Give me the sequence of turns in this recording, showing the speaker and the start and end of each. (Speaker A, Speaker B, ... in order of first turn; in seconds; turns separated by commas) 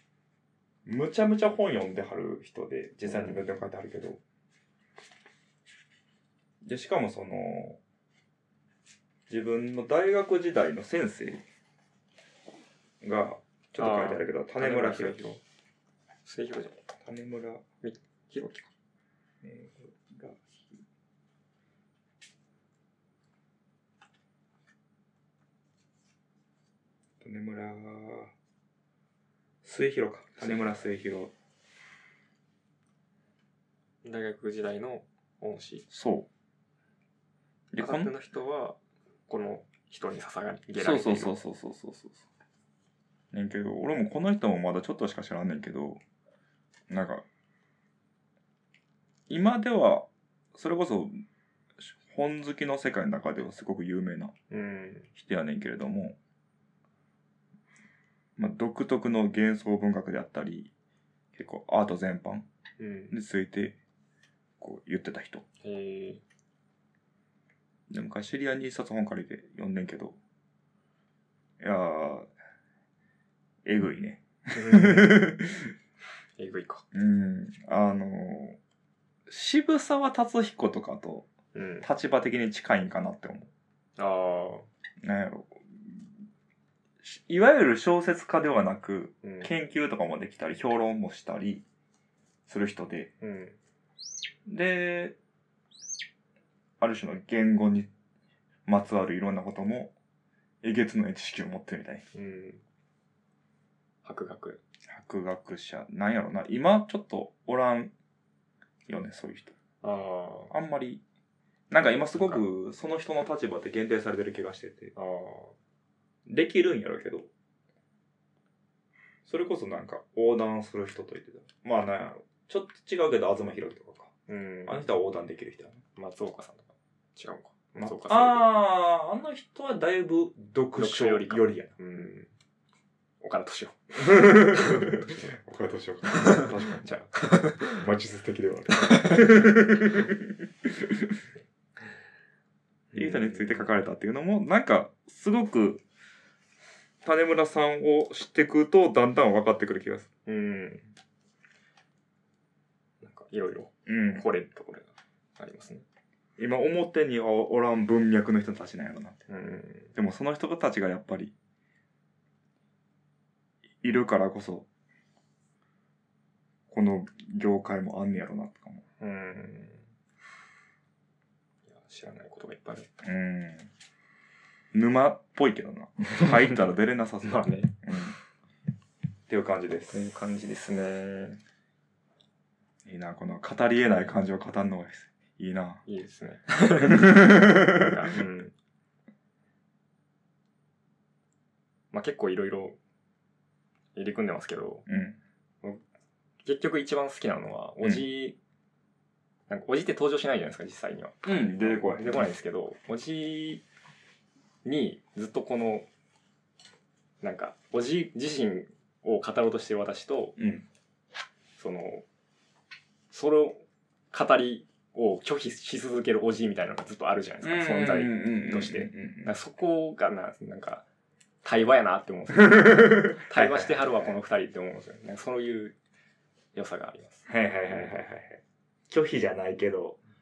Speaker A: 0.8-4.2, Speaker B: 3.1-3.4, Speaker A: 6.6-7.8, Speaker A: 9.3-11.4, Speaker A: 13.0-15.2, Speaker B: 13.8-15.4, Speaker B: 16.2-16.8, Speaker A: 17.0-17.6, Speaker B: 17.8-18.7, Speaker A: 19.4-20.4, Speaker A: 27.2-28.3, Speaker A: 29.6-31.3, Speaker B: 30.4-30.7, Speaker B: 34.0-35.9, Speaker A: 35.9-36.3, Speaker A: 37.7-38.1, Speaker B: 37.8-41.4, Speaker A: 40.8-42.2, Speaker A: 43.3-46.0, Speaker A: 46.9-47.2, Speaker A: 49.3-51.2, Speaker A: 51.8-54.3, Speaker B: 54.5-55.1, Speaker A: 55.1-56.2, Speaker A: 58.4-60.7, Speaker A: 61.3-62.5, Speaker B: 62.8-63.2, Speaker A: 63.1-63.8, Speaker A: 64.6-65.4, Speaker B: 65.6-66.2, Speaker A: 67.9-70.2, Speaker A: 71.6-72.3, Speaker A: 73.6-75.7, Speaker B: 74.5-75.3, Speaker B: 76.4-76.8, Speaker A: 76.9-78.6, Speaker A: 79.3-81.3, Speaker B: 81.5-81.9, Speaker A: 81.8-83.5, Speaker B: 84.0-84.7, Speaker A: 85.0-86.1, Speaker A: 87.0-91.6, Speaker B: 89.2-89.5, Speaker A: 92.5-93.1, Speaker B: 93.2-93.5, Speaker A: 94.5-95.2, Speaker A: 96.8-97.9, Speaker A: 98.7-99.9, Speaker A: 100.6-102.0, Speaker B: 102.1-102.6, Speaker B: 104.0-104.6, Speaker A: 104.9-107.9, Speaker A: 108.9-109.5, Speaker B: 109.8-110.5, Speaker A: 110.5-111.0, Speaker A: 111.7-114.9, Speaker B: 112.2-112.4, Speaker B: 115.0-115.5, Speaker A: 116.2-117.3, Speaker A: 119.2-124.1, Speaker B: 124.3-124.8, Speaker A: 124.7-125.8, Speaker B: 126.0-128.5, Speaker A: 127.8-131.7, Speaker B: 130.8-132.3, Speaker B: 133.2-135.3, Speaker A: 134.0-141.2, Speaker B: 136.1-137.8, Speaker B: 138.8-139.3, Speaker B: 142.9-143.7, Speaker A: 142.9-145.8, Speaker A: 147.0-150.1, Speaker B: 150.2-150.8, Speaker B: 153.0-155.8, Speaker A: 153.8-154.2, Speaker A: 156.4-159.2, Speaker B: 159.3-159.9, Speaker A: 159.9-161.3, Speaker A: 163.8-164.7, Speaker A: 166.7-168.8, Speaker B: 169.0-169.9, Speaker B: 171.7-172.9, Speaker A: 173.0-173.7, Speaker A: 174.7-178.2, Speaker B: 176.1-176.6, Speaker B: 177.2-177.7, Speaker A: 179.3-180.0, Speaker B: 179.9-181.4, Speaker A: 182.8-185.8, Speaker B: 185.8-188.5, Speaker A: 186.8-187.9, Speaker B: 191.9-192.8, Speaker B: 193.9-194.9, Speaker A: 194.9-195.2, Speaker B: 196.4-198.4, Speaker A: 197.8-198.1, Speaker B: 199.5-203.6, Speaker A: 201.2-202.3, Speaker B: 204.6-205.9, Speaker B: 207.2-210.3, Speaker A: 210.4-210.7, Speaker B: 211.6-212.0, Speaker B: 213.1-220.8, Speaker A: 217.4-219.3, Speaker B: 221.4-225.8, Speaker A: 222.4-224.2, Speaker B: 226.5-228.0, Speaker A: 227.3-230.0